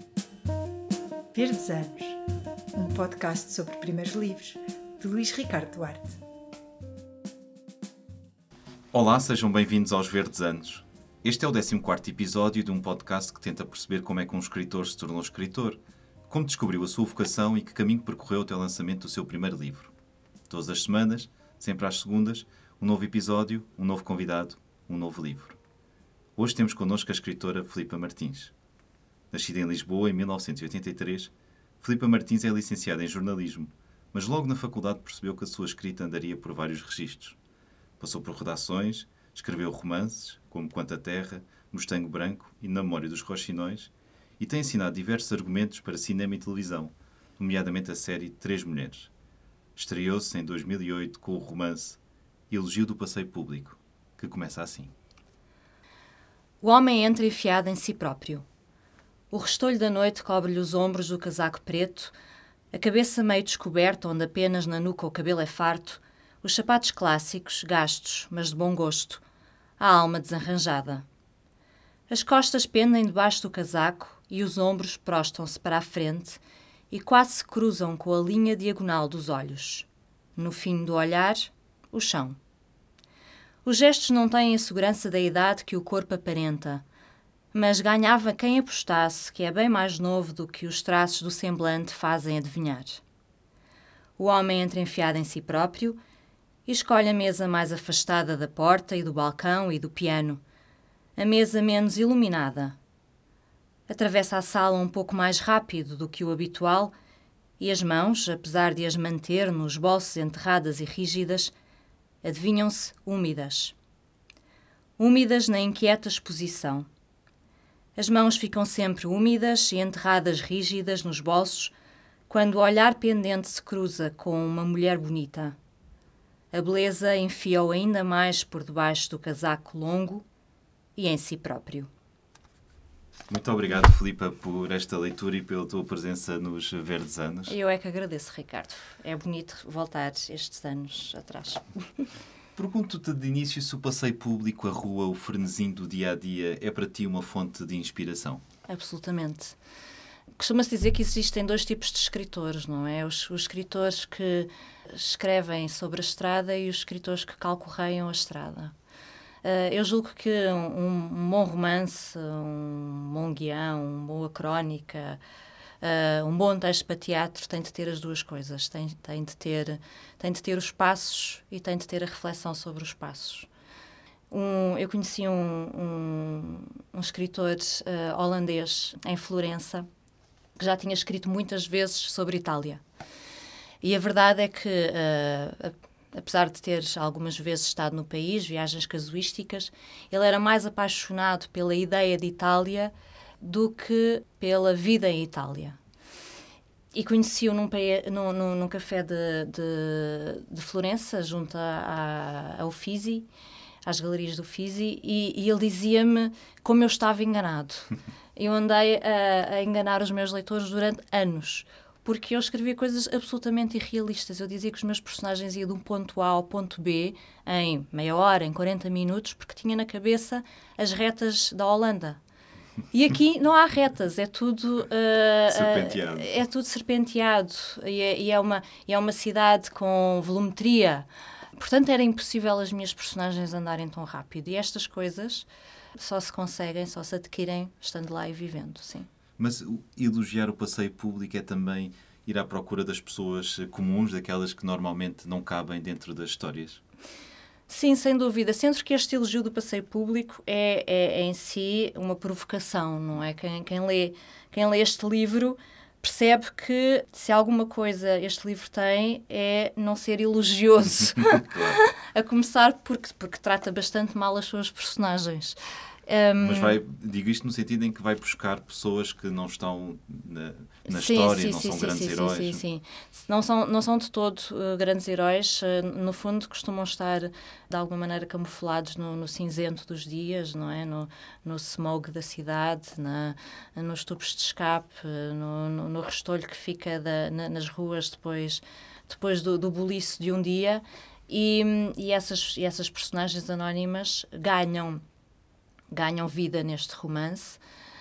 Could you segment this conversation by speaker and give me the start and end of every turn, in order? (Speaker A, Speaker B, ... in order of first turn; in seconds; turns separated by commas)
Speaker A: 1.3-2.2, Speaker A: 2.7-6.2, Speaker B: 8.9-19.9, Speaker B: 20.5-25.6, Speaker B: 26.4-28.5, Speaker B: 29.3-37.4, Speaker B: 38.0-49.1, Speaker B: 49.8-52.0, Speaker B: 52.5-54.9, Speaker C: 56.6-58.5, Speaker C: 59.3-62.1, Speaker C: 62.7-69.2, Speaker C: 69.8-71.0, Speaker C: 72.1-76.4, Speaker C: 76.9-82.4, Speaker C: 83.7-86.8, Speaker C: 87.5-93.0, Speaker C: 94.2-96.0, Speaker C: 96.7-100.4, Speaker C: 101.2-102.8, Speaker C: 103.9-106.9, Speaker C: 107.6-111.5, Speaker C: 112.2-113.8, Speaker C: 115.0-116.9, Speaker C: 118.0-121.7, Speaker C: 122.3-125.6, Speaker C: 126.5-130.2, Speaker C: 131.0-131.9, Speaker B: 133.3-137.6, Speaker C: 137.5-142.1, Speaker B: 142.6-148.4, Speaker C: 148.7-149.6, Speaker C: 150.4-158.7, Speaker C: 159.4-165.2, Speaker C: 165.8-173.5, Speaker C: 174.3-179.9, Speaker C: 180.6-182.8, Speaker C: 183.8-195.8, Speaker C: 196.9-203.3, Speaker C: 203.9-222.2, Speaker C: 222.9-239.1, Speaker B: 225.5-226.3, Speaker B: 239.4-246.8, Speaker C: 247.7-265.6, Speaker B: 261.3-261.8, Speaker C: 266.1-266.8, Speaker B: 266.4-272.6, Speaker C: 270.9-295.0, Speaker C: 295.9-297.6